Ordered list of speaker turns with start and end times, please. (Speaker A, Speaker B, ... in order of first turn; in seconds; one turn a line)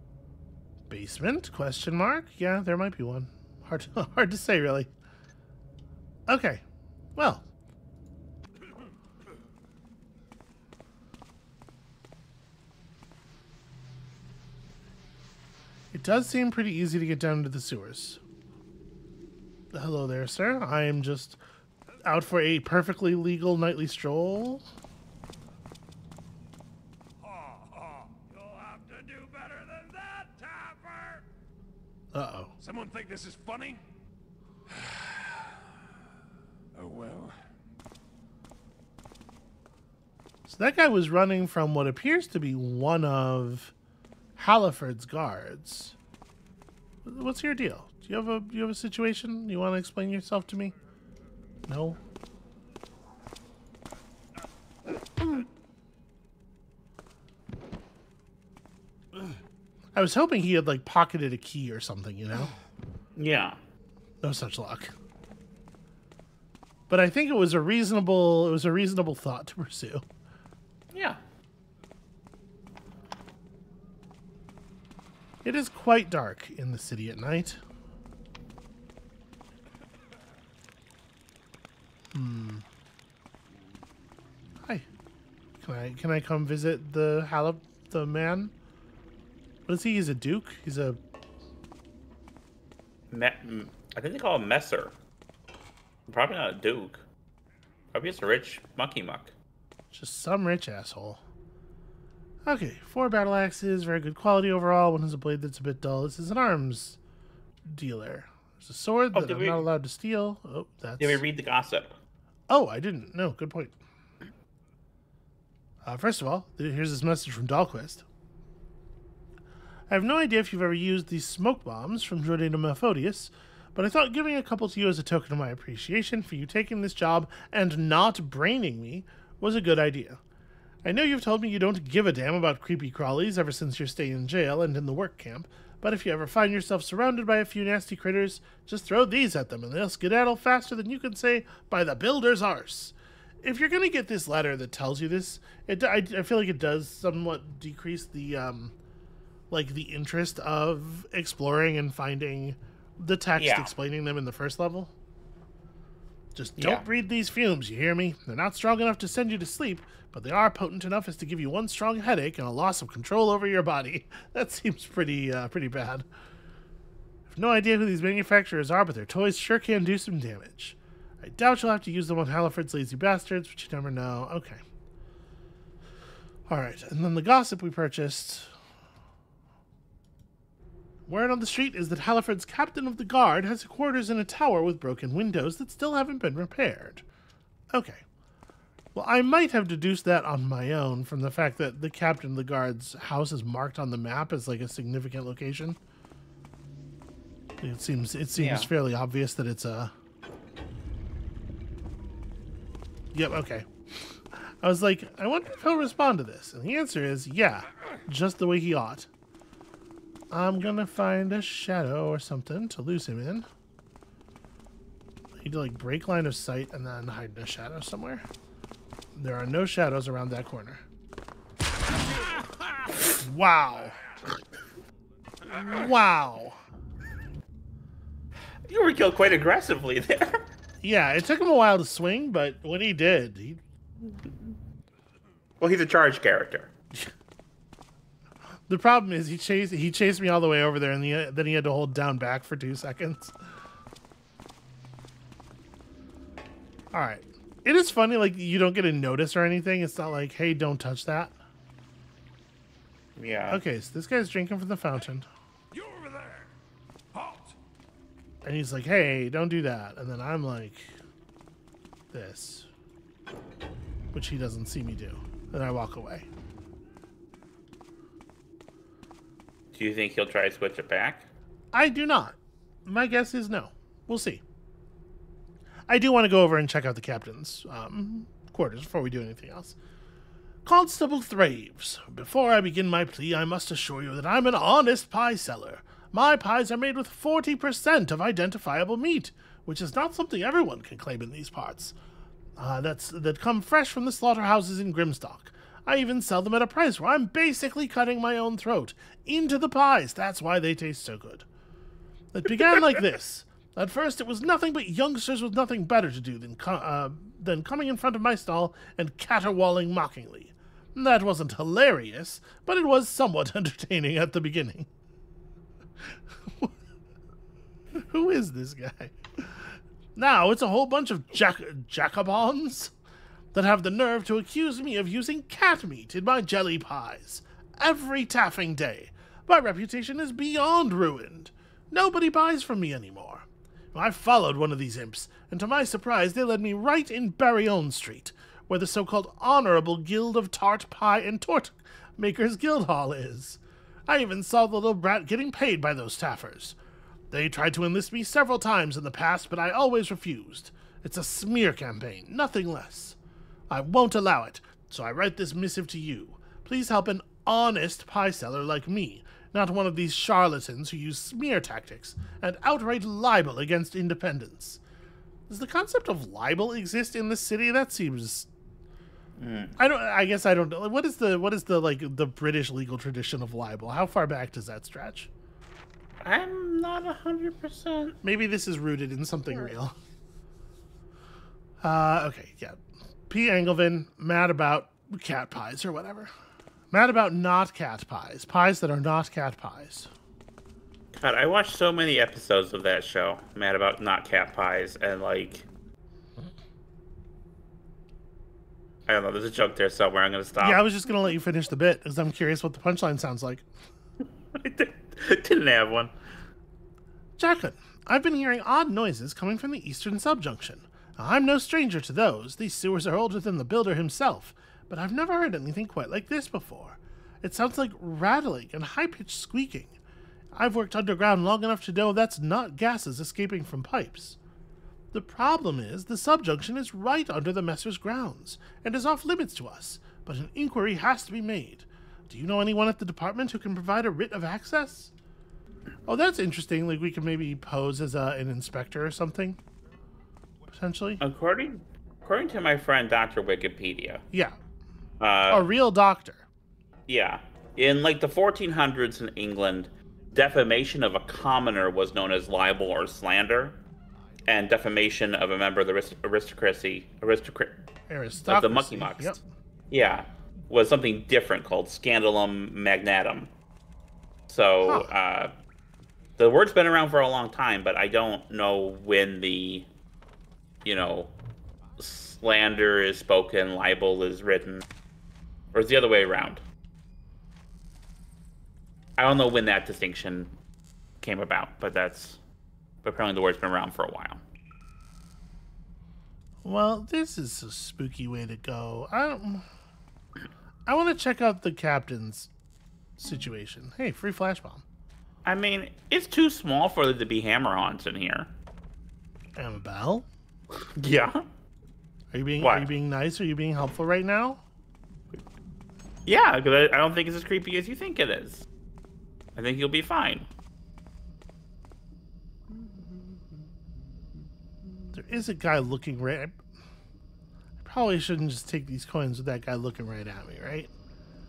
Speaker A: 0.9-4.9
Speaker A: 6.3-6.6
Speaker A: 7.2-7.4
Speaker A: 15.9-18.2
Speaker A: 19.7-21.4
Speaker A: 22.0-24.6
Speaker B: 27.2-31.2
Speaker A: 32.1-32.5
Speaker B: 32.6-33.8
Speaker B: 34.8-35.4
Speaker B: 36.7-37.4
Speaker A: 40.5-43.7
Speaker A: 44.4-46.0
Speaker A: 47.0-50.7
Speaker A: 51.7-52.0
Speaker A: 59.9-62.5
Speaker C: 63.1-63.6
Speaker A: 64.2-64.9
Speaker A: 66.9-70.0
Speaker C: 70.9-71.2
Speaker A: 75.4-77.6
Speaker A: 82.1-82.6
Speaker A: 85.6-88.5
Speaker A: 89.7-91.0
Speaker C: 93.1-94.9
Speaker C: 96.1-97.0
Speaker C: 97.9-99.3
Speaker A: 99.9-101.2
Speaker A: 102.5-107.0
Speaker A: 107.7-111.2
Speaker C: 109.1-109.6
Speaker C: 111.0-112.0
Speaker A: 112.5-113.8
Speaker A: 115.8-118.0
Speaker A: 119.9-130.2
Speaker A: 130.8-148.7
Speaker A: 149.5-154.9
Speaker C: 153.4-153.7
Speaker A: 156.3-166.1
Speaker C: 156.6-156.8
Speaker A: 167.3-174.6
Speaker A: 176.5-178.5
Speaker A: 181.1-187.0
Speaker A: 187.7-188.0
Speaker A: 188.9-195.8
Speaker A: 197.6-199.9
Speaker C: 198.3-198.7
Speaker A: 203.1-209.1
Speaker A: 210.3-213.5
Speaker A: 215.4-218.2
Speaker A: 219.2-220.8
Speaker A: 223.2-224.0
Speaker A: 225.6-226.6
Speaker C: 228.7-230.4
Speaker A: 230.8-233.6
Speaker C: 235.6-236.7
Speaker A: 238.7-243.3
Speaker A: 246.9-251.3
Speaker C: 253.2-253.6
Speaker A: 253.5-255.3
Speaker B: 255.7-256.5
Speaker B: 257.1-257.6
Speaker A: 258.4-260.9
Speaker A: 262.1-262.7
Speaker A: 264.1-266.3
Speaker C: 269.7-271.3
Speaker A: 271.7-274.4
Speaker A: 275.9-279.8
Speaker A: 280.6-291.9
Speaker A: 292.6-301.4
Speaker A: 302.3-314.9
Speaker A: 316.0-316.7
Speaker A: 317.9-322.9
Speaker A: 323.5-346.8
Speaker A: 347.3-353.2
Speaker A: 353.7-364.8
Speaker A: 365.5-368.5
Speaker C: 369.4-369.8
Speaker A: 369.8-375.3
Speaker C: 376.2-378.2
Speaker A: 378.2-379.9
Speaker A: 381.8-386.3
Speaker A: 386.9-390.1
Speaker C: 391.1-395.7
Speaker C: 399.1-400.8
Speaker A: 400.6-403.6
Speaker C: 404.6-406.1
Speaker A: 407.4-420.0
Speaker A: 420.5-424.4
Speaker A: 425.1-435.1
Speaker A: 436.1-439.6
Speaker A: 440.7-441.2
Speaker C: 441.2-444.2
Speaker A: 444.3-444.6
Speaker C: 445.2-445.6
Speaker A: 445.5-446.4
Speaker C: 447.1-453.8
Speaker C: 454.4-457.8
Speaker A: 458.1-459.4
Speaker C: 458.5-459.4
Speaker C: 459.9-463.5
Speaker C: 464.5-465.5
Speaker A: 464.8-465.1
Speaker C: 466.4-469.9
Speaker C: 470.8-471.3
Speaker C: 472.0-474.8
Speaker C: 475.7-476.6
Speaker C: 479.2-480.5
Speaker C: 481.2-482.4
Speaker C: 483.0-484.4
Speaker A: 486.6-489.6
Speaker A: 490.9-492.5
Speaker A: 493.2-494.8
Speaker C: 495.4-498.5
Speaker A: 499.6-500.3
Speaker C: 500.9-501.5
Speaker A: 502.3-504.6
Speaker C: 502.6-502.9
Speaker C: 506.2-508.6
Speaker C: 509.6-510.5
Speaker A: 515.1-516.6
Speaker A: 517.8-520.9